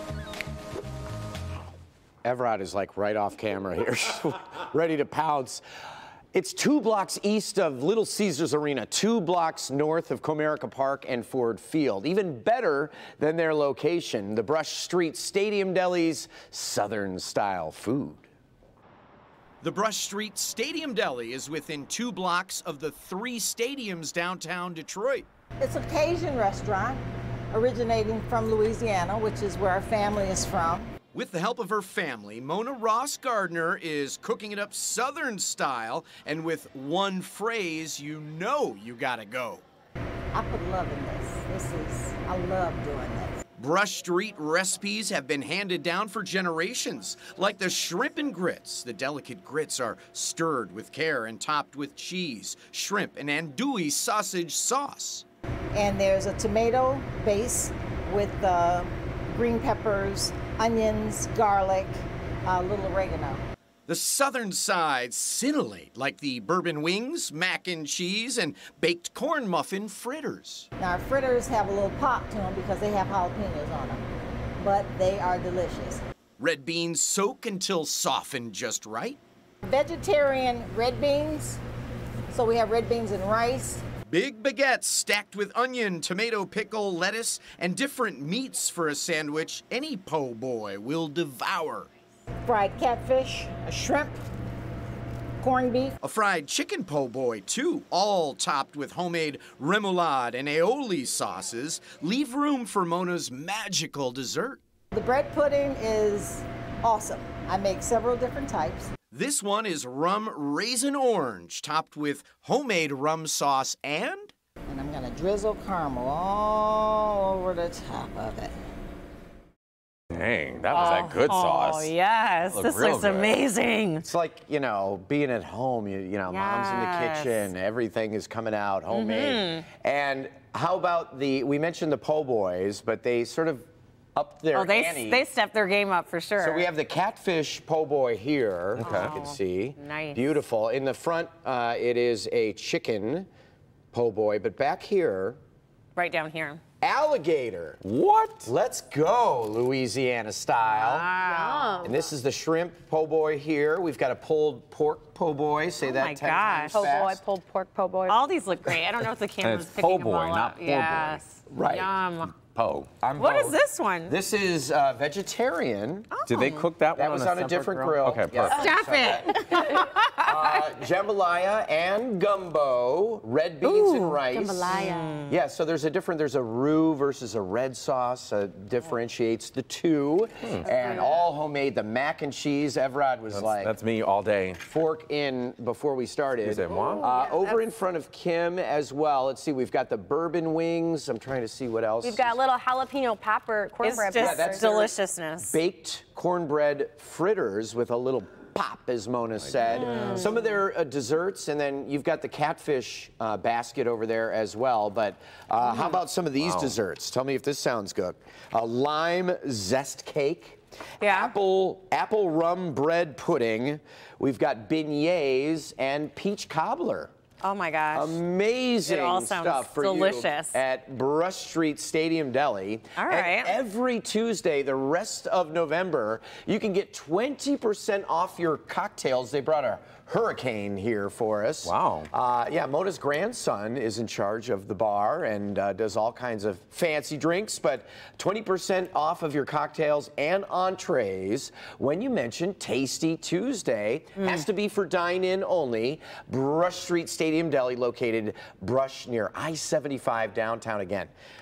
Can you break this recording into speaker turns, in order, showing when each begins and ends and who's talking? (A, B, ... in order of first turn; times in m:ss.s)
0:02.2-0:05.6 A
0:06.3-0:18.3 A
0:19.6-0:25.3 B
0:25.6-0:30.9 C
0:31.1-0:39.6 B
0:40.3-0:43.4 C
0:43.6-0:55.2 B
0:55.7-1:03.4 C
1:03.9-1:10.7 B
1:10.8-1:14.1 C
1:14.6-1:16.0 C
1:16.4-1:19.2 B
1:19.6-1:21.6 C
1:22.3-1:23.8 C
1:24.1-1:31.9 B
1:32.4-1:34.2 C
1:35.4-1:36.0 C
1:36.0-1:44.6 B
1:44.9-1:48.9 C
1:49.1-1:54.3 B
1:54.7-1:58.6 C
2:00.1-2:03.4 D
2:00.7-2:04.0 E
2:04.0-2:15.2 A
2:06.3-2:07.5 E
2:08.9-2:09.7 E
2:14.5-2:16.7 E
2:16.4-2:23.3 A
2:18.8-2:19.2 D
2:18.8-2:20.3 E
2:23.9-2:25.4 A
2:26.0-2:26.6 E
2:26.8-2:27.8 A
2:27.8-2:28.5 D
2:28.4-2:31.1 A
2:30.7-2:32.0 E
2:31.2-2:32.0 F
2:31.8-2:37.2 A
2:35.8-2:36.9 E
2:36.7-2:38.2 F
2:38.1-2:42.3 E
2:39.4-2:41.2 D
2:41.5-2:41.9 A
2:42.2-2:43.0 D
2:43.0-2:46.1 A
2:43.2-2:44.2 E
2:46.1-2:46.7 E
2:46.3-2:48.6 D
2:47.0-3:03.7 A
2:48.5-2:50.7 E
2:53.6-2:54.2 E
2:54.2-2:55.3 F
2:54.7-2:55.3 E
3:00.4-3:00.7 D
3:03.3-3:04.6 D
3:04.7-3:12.4 A
3:06.4-3:07.1 D
3:06.9-3:07.5 F
3:12.0-3:14.9 F
3:13.8-3:15.6 E
3:14.2-3:37.1 A
3:19.4-3:20.2 D
3:19.8-3:20.3 F
3:26.4-3:26.8 D
3:31.0-3:31.3 E
3:37.4-3:38.2 E
3:37.9-4:11.1 A
3:38.8-3:40.6 E
3:43.0-3:43.6 E
3:51.6-3:52.1 D
4:04.2-4:04.4 E